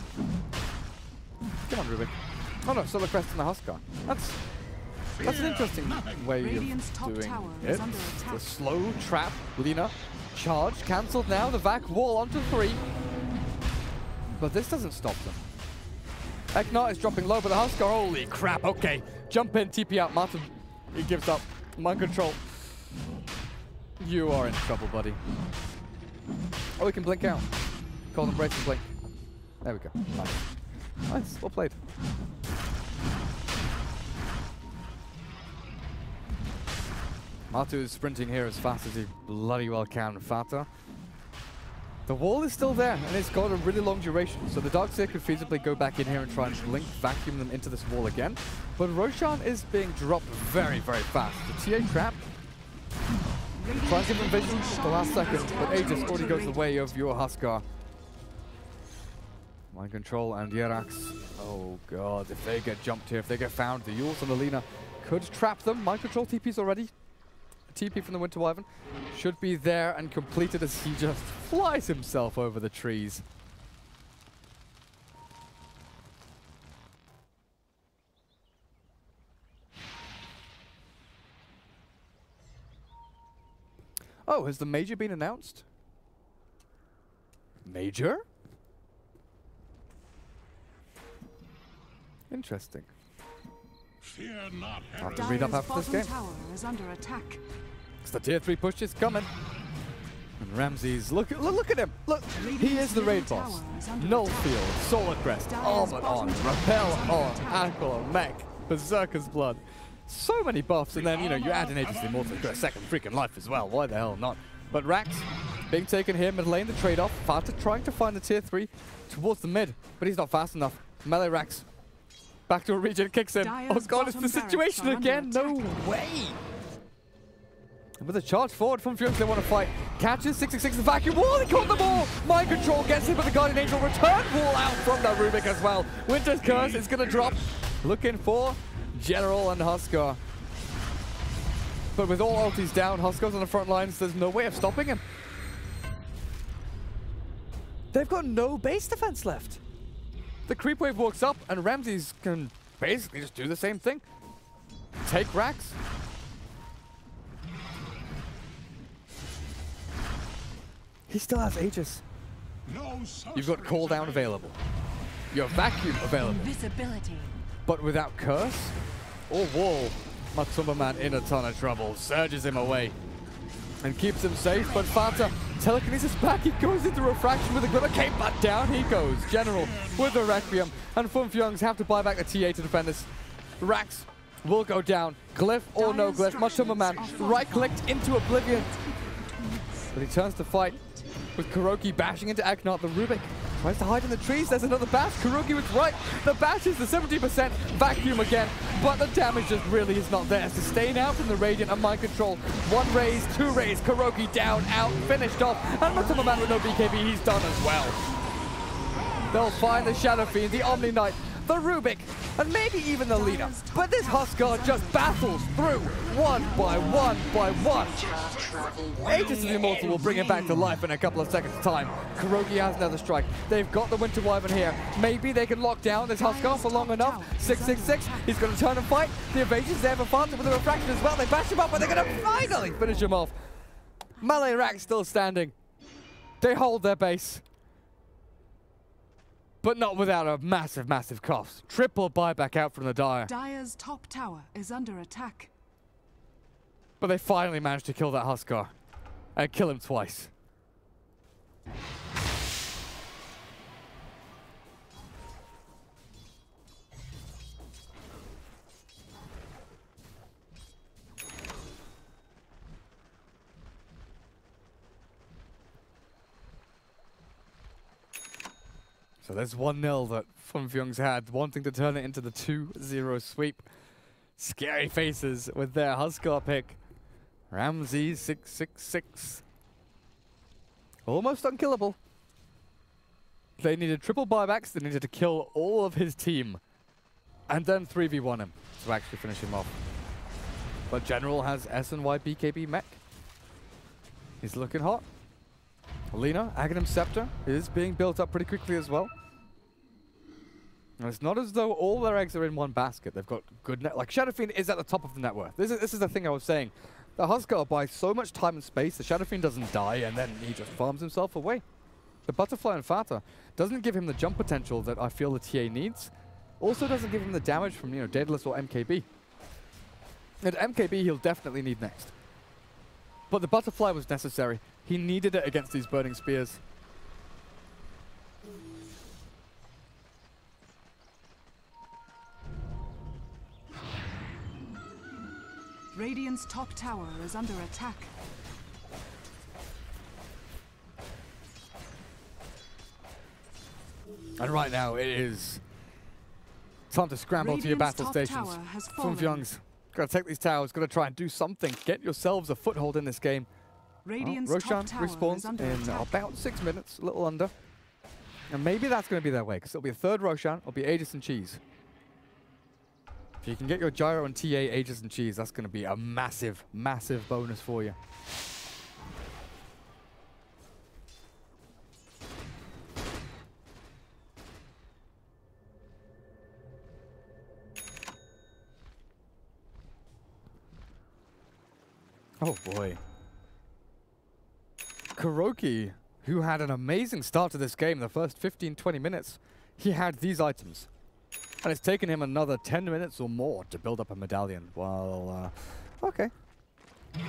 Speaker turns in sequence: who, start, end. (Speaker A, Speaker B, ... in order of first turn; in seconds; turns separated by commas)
Speaker A: 1.7-4.4, Speaker B: 5.2-6.3, Speaker A: 5.2-12.8, Speaker C: 6.4-8.5, Speaker A: 14.3-15.4, Speaker A: 16.5-22.4, Speaker A: 24.0-25.2, Speaker A: 26.8-27.4, Speaker A: 28.1-28.9, Speaker A: 29.6-30.4, Speaker A: 31.1-31.8, Speaker A: 37.5-40.7, Speaker A: 42.1-52.2, Speaker C: 53.5-57.0, Speaker A: 53.8-57.6, Speaker A: 59.7-66.9, Speaker A: 67.7-73.2, Speaker A: 84.3-85.6, Speaker A: 87.6-88.2, Speaker A: 92.3-92.9, Speaker B: 94.0-95.5, Speaker A: 95.0-96.1, Speaker C: 95.1-97.4, Speaker A: 98.0-99.3, Speaker A: 100.4-121.7, Speaker C: 102.3-104.7, Speaker C: 105.4-108.0, Speaker B: 110.9-112.8, Speaker A: 122.5-126.4, Speaker C: 123.4-126.0, Speaker A: 128.0-140.2, Speaker B: 136.4-137.6, Speaker A: 141.9-145.0, Speaker A: 147.9-149.6, Speaker A: 150.5-154.0, Speaker A: 155.0-155.8, Speaker A: 161.1-162.0, Speaker B: 162.6-164.4, Speaker A: 163.3-164.6, Speaker A: 165.3-166.5, Speaker C: 166.1-167.4, Speaker A: 167.7-168.8, Speaker A: 169.3-172.9, Speaker A: 173.8-188.7, Speaker B: 174.8-175.1, Speaker B: 179.4-180.9, Speaker C: 185.7-190.0, Speaker A: 189.9-190.8, Speaker A: 191.3-208.0, Speaker A: 209.3-218.1, Speaker C: 213.1-218.3, Speaker B: 218.4-220.7, Speaker A: 219.0-233.4, Speaker C: 226.2-228.5, Speaker A: 234.2-235.5, Speaker A: 236.4-237.4, Speaker A: 239.6-243.3, Speaker C: 243.2-245.5, Speaker A: 247.0-248.7, Speaker A: 249.3-250.3, Speaker A: 269.2-273.6, Speaker A: 274.4-276.8, Speaker A: 277.5-279.4, Speaker A: 281.1-282.0, Speaker A: 283.6-286.6, Speaker A: 287.5-289.8, Speaker A: 290.9-293.0, Speaker A: 294.4-295.0, Speaker A: 296.1-299.1, Speaker A: 301.0-311.6, Speaker A: 312.3-319.1, Speaker A: 320.4-322.1, Speaker A: 323.3-326.6, Speaker C: 335.9-338.1, Speaker A: 344.4-345.6, Speaker A: 346.9-353.5, Speaker C: 347.4-349.5, Speaker C: 354.0-356.3, Speaker A: 354.2-357.5, Speaker A: 358.5-361.6, Speaker A: 363.4-368.0, Speaker A: 382.4-383.0, Speaker A: 385.1-390.9, Speaker A: 391.6-396.3